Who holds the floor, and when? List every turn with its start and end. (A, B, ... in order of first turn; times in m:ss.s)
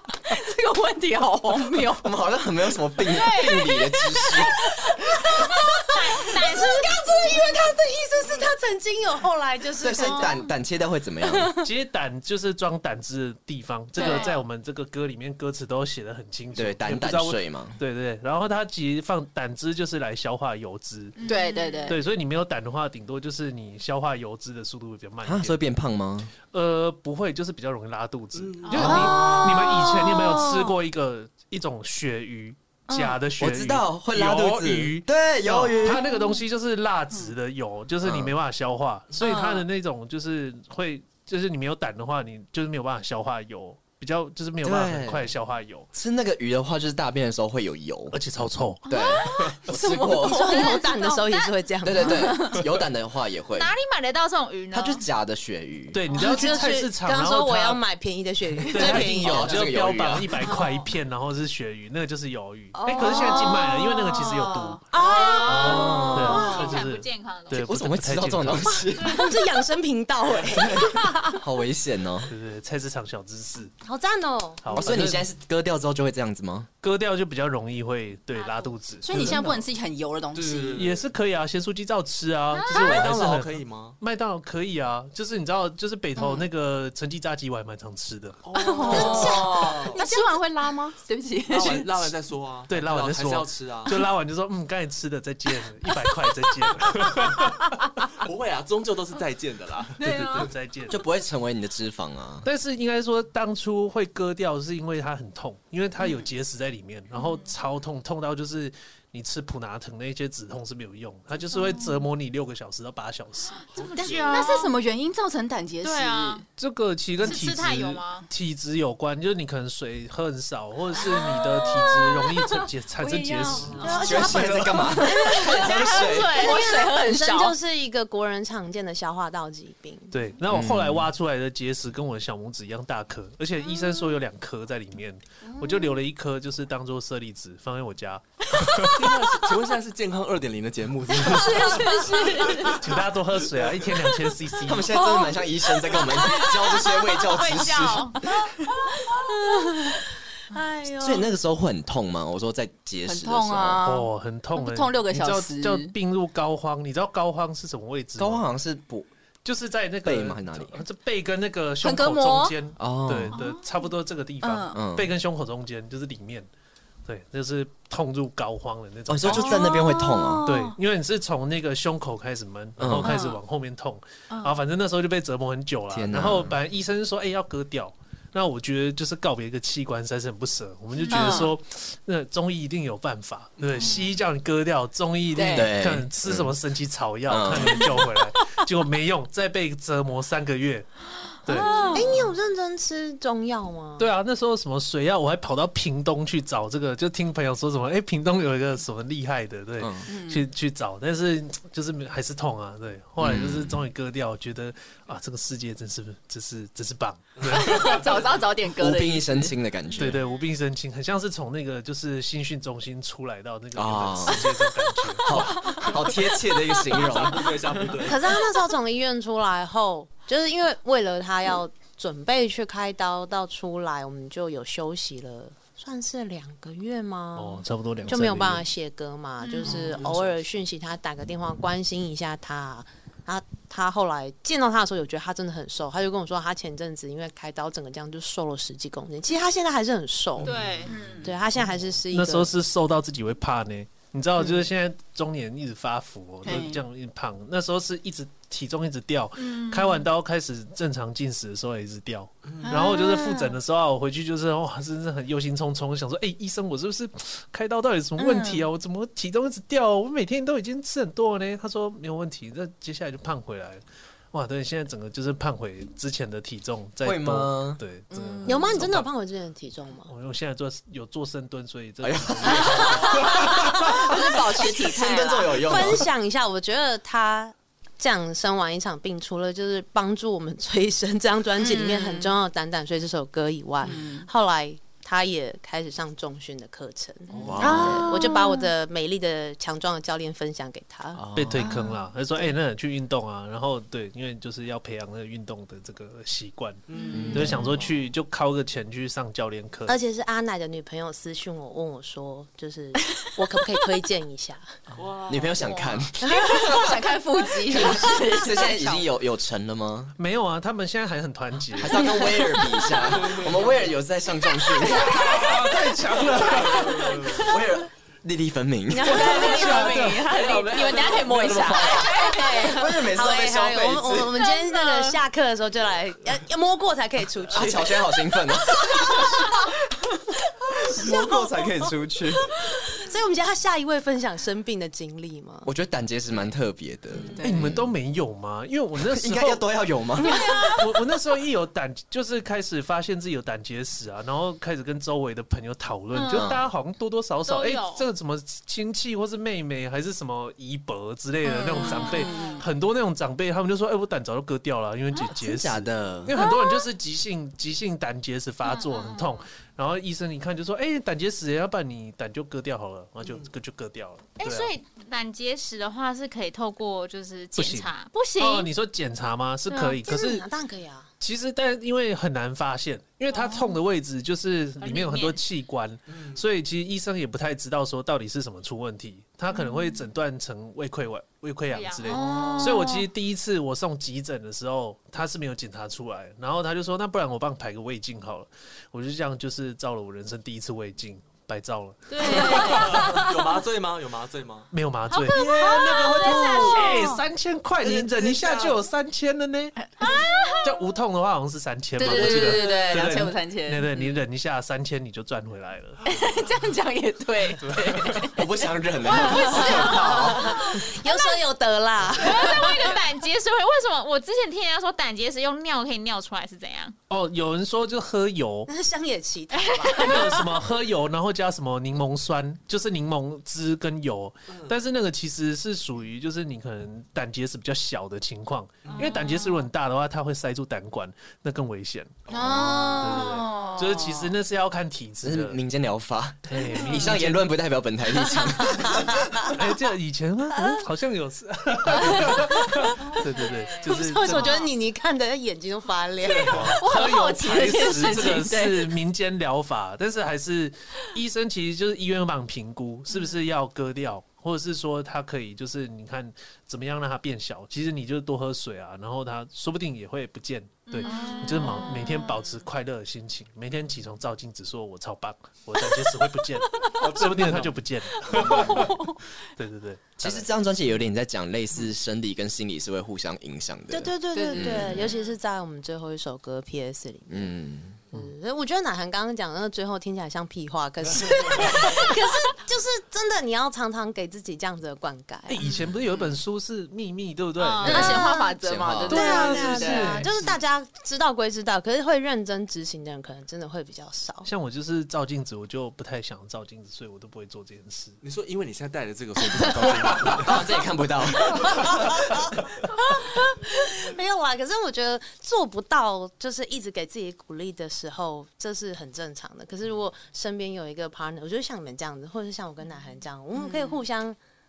0:00.2-0:02.1 A
0:02.0-0:04.7 B
0:03.0-0:03.9 C
0:04.9-0:10.4 D
0:05.9-0:06.9 C
0:09.8-0:11.5 B
0:10.0-0:10.4 C
0:11.2-0:11.6 D
0:11.6-0:21.2 E
0:14.0-0:14.4 C
0:14.0-0:14.3 A
0:16.5-0:17.8 B
0:21.2-0:22.0 C
0:21.2-0:22.0 A
0:21.9-0:25.6 E
0:25.2-0:26.3 B
0:26.5-0:45.9 E
0:28.3-0:29.4 F
0:28.6-0:29.0 C
0:28.7-0:29.3 B
0:29.0-0:30.6 A
0:32.9-0:33.2 A
0:33.4-0:36.0 B
0:38.0-0:38.3 B
0:39.2-0:39.6 A
0:44.6-0:45.3 B
0:45.9-0:50.5 B
0:48.1-0:49.7 E
0:48.9-0:49.5 C
0:49.5-0:51.1 A
0:50.0-0:52.5 D
0:50.5-0:51.5 C
0:51.8-0:53.7 B
0:52.2-0:52.6 A
0:53.5-0:55.0 C
0:54.7-0:56.0 B
0:55.9-0:57.8 E
0:56.1-0:56.5 C
0:56.1-0:59.6 D
0:58.6-1:04.8 E
0:58.7-1:00.4 B
1:00.4-1:00.8 D
1:02.7-1:03.8 D
1:03.0-1:07.6 C
1:04.9-1:06.8 D
1:05.4-1:06.6 B
1:06.1-1:08.9 E
1:07.5-1:09.4 B
1:09.0-1:09.3 C
1:09.0-1:11.4 D
1:10.5-1:12.3 B
1:12.3-1:13.7 E
1:13.8-1:15.0 D
1:14.6-1:15.3 E
1:14.7-1:16.7 B
1:16.8-1:19.2 E
1:18.3-1:18.8 C
1:19.0-1:20.8 A
1:19.1-1:19.6 F
1:20.3-1:21.1 F
1:20.8-1:28.4 E
1:22.5-1:23.0 C
1:22.7-1:24.0 F
1:26.2-1:26.4 A
1:28.4-1:30.0 F
1:28.5-1:31.9 A
1:28.8-1:30.9 D
1:31.5-1:34.0 F
1:32.7-1:37.7 E
1:38.2-1:40.5 F
1:40.0-1:41.0 E
1:40.9-1:42.4 B
1:42.4-1:54.3 E
1:47.1-1:47.5 C
1:51.5-1:52.0 C
1:53.8-1:54.7 C
1:53.8-1:54.4 F
1:53.9-1:56.4 A
1:55.8-1:56.4 C
1:56.6-2:04.6 E
1:57.2-1:58.3 C
2:00.9-2:07.6 A
2:03.8-2:10.1 D
2:04.0-2:06.4 B
2:05.4-2:06.7 C
2:10.1-2:18.9 E
2:10.5-2:11.1 B
2:15.5-2:15.8 D
2:18.9-2:22.7 F
2:21.1-2:22.8 A
2:22.8-2:24.9 E
2:24.6-2:28.3 B
2:26.0-2:26.6 A
2:26.2-2:26.7 C
2:27.3-2:28.2 C
2:28.2-2:28.7 A
2:29.0-2:30.0 D
2:29.5-2:30.0 A
2:30.5-2:31.3 D
2:31.0-2:33.9 B
2:33.0-2:35.9 A
2:33.8-2:38.4 E
2:38.2-2:39.1 B
2:39.4-2:46.5 E
2:40.0-2:40.8 B
2:41.8-2:42.6 A
2:42.8-2:43.4 B
2:43.3-2:43.6 C
2:44.4-2:44.8 A
2:44.7-2:45.1 B
2:47.0-2:49.8 E
2:49.1-2:50.5 B
2:49.2-2:50.8 A
2:50.4-3:10.9 E
2:52.8-2:53.1 B
2:53.0-2:53.4 A
2:54.3-2:54.6 A
2:55.9-2:56.6 B
3:01.1-3:01.5 A
3:03.6-3:04.0 F
3:05.3-3:05.7 A
3:05.5-3:06.5 B
3:07.3-3:07.9 B
3:11.4-3:11.9 E
3:11.5-3:12.2 A
3:11.5-3:14.1 D
3:14.0-3:28.1 E
3:19.8-3:20.0 B
3:20.1-3:20.4 A
3:23.2-3:23.8 B
3:27.4-3:29.5 A
3:27.7-3:28.2 F
3:28.8-3:30.2 B
3:30.0-3:35.9 E
3:33.8-3:34.5 B
3:35.2-3:37.6 B
3:35.3-3:35.9 A
3:36.8-3:38.2 F
3:38.0-4:00.7 D
3:47.4-3:48.6 E
3:49.4-3:50.0 C
3:49.6-3:50.4 F
4:00.4-4:01.3 C
4:00.8-4:01.2 F
4:01.2-4:02.5 D
4:02.1-4:29.1 E
4:06.4-4:06.8 A
4:09.4-4:10.0 C
4:12.6-4:13.6 A
4:18.2-4:18.6 A
4:27.0-4:27.8 B
4:28.1-4:28.8 A
4:28.4-4:30.1 D
4:30.1-4:33.8 E
4:32.0-4:36.1 B
4:32.4-4:35.7 A
4:35.6-4:51.2 D
4:41.6-4:42.4 A
4:43.8-4:44.3 A
4:47.3-4:47.7 F
4:47.4-4:48.1 B
4:47.6-4:48.7 A
4:51.1-4:51.7 B
4:51.4-5:00.0 E
4:51.6-4:52.0 A
4:56.9-4:57.9 F
4:57.1-4:57.6 B
4:57.1-4:57.7 A
4:59.9-5:04.6 D
5:05.0-5:05.6 F
5:05.3-5:07.0 B
5:05.6-5:06.0 C
5:06.2-5:09.0 A
5:07.6-5:10.1 B
5:07.7-5:08.1 D
5:10.2-5:12.2 E
5:11.7-5:15.6 B
5:12.2-5:12.9 A
5:13.2-5:13.9 F
5:14.9-5:17.4 E
5:16.2-5:19.3 B
5:16.7-5:17.4 F
5:18.9-5:20.3 D
5:19.0-5:22.9 A
5:19.0-5:22.1 E
5:20.3-5:22.0 F
5:22.1-5:29.6 D
5:22.6-5:24.3 B
5:24.6-5:25.1 C
5:27.5-5:29.5 B
5:30.7-5:31.7 D
5:30.8-5:32.5 B
5:32.5-5:35.7 D
5:35.6-5:37.9 B
5:37.4-5:39.6 E
5:39.0-5:40.4 B
5:40.2-5:40.8 C
5:40.2-6:04.7 E
5:46.1-5:46.6 C
5:46.3-5:46.6 B
5:47.4-5:48.1 C
5:51.4-5:52.6 A
5:51.8-5:52.6 C
5:55.3-5:56.3 B
5:56.3-5:56.9 C
5:58.6-5:59.4 C
6:04.4-6:08.7 C
6:07.5-6:10.4 E
6:09.7-6:10.0 C
6:10.0-6:11.1 D
6:11.2-6:33.2 E
6:13.3-6:13.8 C
6:14.8-6:15.4 C
6:19.6-6:19.9 C
6:21.7-6:23.0 C
6:22.1-6:22.6 A
6:32.1-6:33.3 C
6:32.2-6:34.7 F
6:32.2-6:33.3 A
6:34.7-6:39.8 E
6:35.2-6:37.1 C
6:35.3-6:36.8 F
6:35.5-6:37.2 A
6:37.8-6:38.8 F
6:40.0-6:40.6 A
6:40.0-6:40.6 C
6:40.6-6:46.2 E
6:42.0-6:43.9 A
6:42.0-6:43.3 F
6:46.0-6:48.5 A
6:47.6-6:48.3 E
6:48.3-6:50.7 B
6:49.2-6:53.0 D
6:49.2-6:50.3 A
6:50.4-6:50.8 C
6:52.2-6:56.9 C
6:57.1-6:58.7 E
6:58.7-7:00.5 D
6:59.5-7:00.4 C
7:00.0-7:12.1 E
7:08.8-7:09.2 F
7:08.9-7:09.6 C
7:12.3-7:13.0 F
7:12.3-7:14.1 A
7:12.4-7:14.0 C
7:12.9-7:15.6 E
7:15.2-7:19.5 B
7:16.5-7:17.4 E
7:16.8-7:17.0 C
7:18.4-7:19.0 D
7:19.4-7:24.6 E
7:23.3-7:23.8 C
7:23.8-7:26.8 D
7:24.3-7:24.7 C
7:26.2-7:26.8 F
7:26.4-7:50.5 E
7:26.8-7:28.9 A
7:40.9-7:42.6 C
7:41.0-7:41.4 A
7:46.8-7:47.1 A
7:47.0-7:47.8 F
7:48.3-7:49.2 A
7:48.4-7:48.7 F
7:48.5-7:48.7 B
7:50.2-7:55.0 B
7:53.9-7:57.5 D
7:54.3-7:55.1 A
7:57.3-7:58.0 B
7:58.1-8:05.6 D
8:05.5-8:08.3 E
8:05.6-8:05.9 C
8:07.6-8:08.3 C
8:07.8-8:10.6 A
8:07.9-8:08.5 D
8:08.6-8:09.3 B
8:09.1-8:10.3 E
8:09.1-8:14.5 D
8:14.4-8:18.2 E
8:18.2-8:20.8 F
8:20.0-8:22.1 B
8:21.6-8:22.0 D
8:22.8-8:34.4 D
8:33.6-8:33.9 A